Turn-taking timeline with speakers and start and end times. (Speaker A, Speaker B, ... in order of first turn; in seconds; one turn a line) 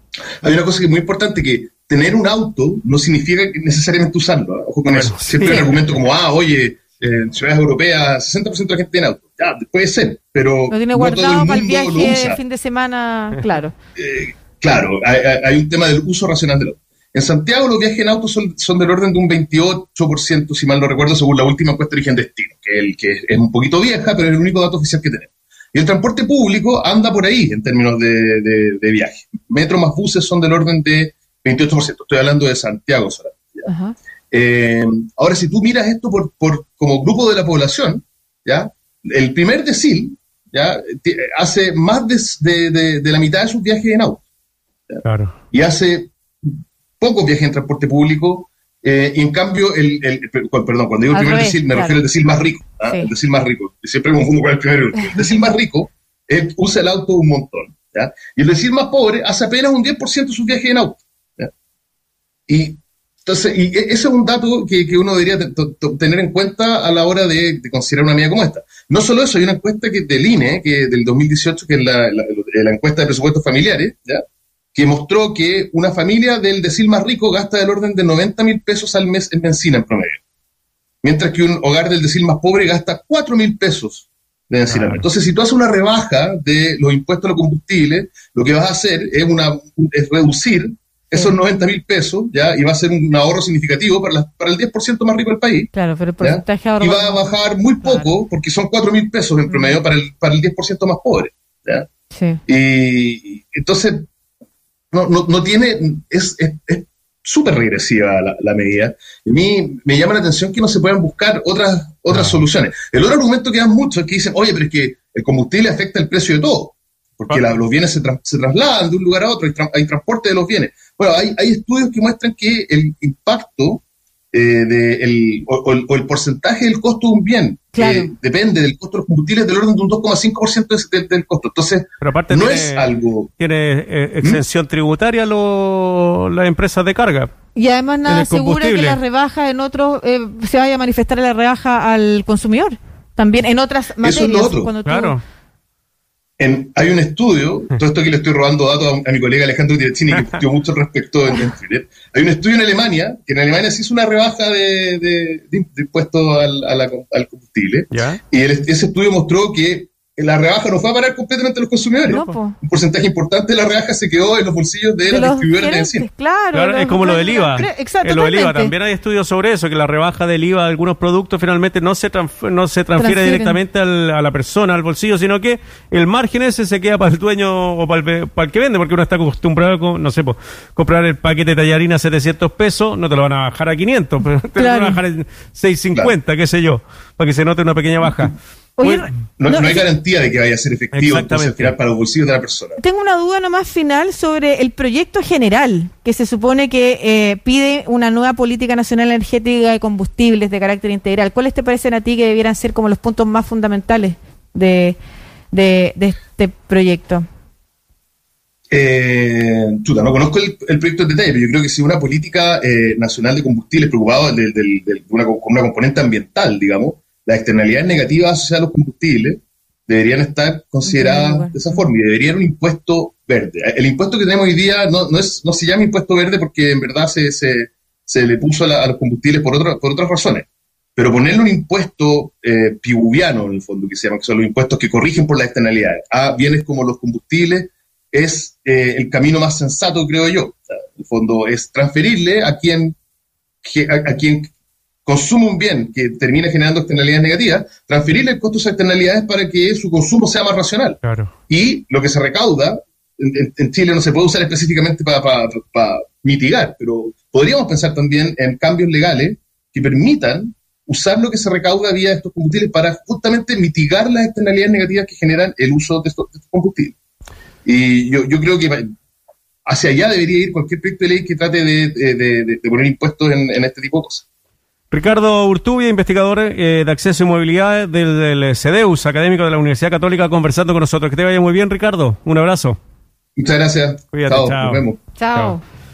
Speaker A: 0.4-12.4
Speaker B: 4.9-5.7
Speaker C: 5.4-5.7
Speaker C: 10.7-13.7
Speaker A: 14.0-33.7
Speaker C: 33.7-34.0
Speaker A: 34.3-44.2
Speaker A: 44.9-61.5
Speaker B: 45.0-45.3
Speaker C: 51.1-52.0
Speaker C: 52.8-53.1
Speaker A: 62.5-74.2
Speaker A: 74.7-80.2
Speaker A: 81.0-101.9
Speaker B: 84.7-85.0
Speaker C: 95.7-97.2
Speaker C: 99.5-99.8
Speaker C: 102.1-102.4
Speaker A: 102.5-104.0
Speaker A: 104.9-133.3
Speaker B: 112.1-112.4
Speaker C: 127.8-128.1
Speaker B: 132.0-137.3
Speaker C: 137.6-145.2
Speaker B: 138.1-139.0
Speaker A: 144.0-144.7
Speaker B: 144.9-145.2
Speaker A: 146.4-166.1
Speaker B: 150.2-150.4
Speaker B: 157.9-158.2
Speaker C: 162.1-162.6
Speaker C: 165.1-168.7
Speaker B: 166.5-189.1
Speaker C: 173.0-173.6
Speaker C: 184.6-185.0
Speaker C: 188.8-189.8
Speaker A: 189.4-192.8
Speaker B: 190.9-191.7
Speaker C: 192.8-205.0
Speaker C: 205.5-207.2
Speaker A: 208.7-243.0
Speaker C: 220.8-221.9
Speaker A: 243.6-244.5
Speaker A: 245.1-266.9
Speaker B: 251.0-251.3
Speaker A: 267.6-268.9
Speaker A: 269.7-274.2
Speaker B: 274.9-282.8
Speaker A: 283.4-285.0
Speaker B: 284.1-285.6
Speaker C: 285.2-285.6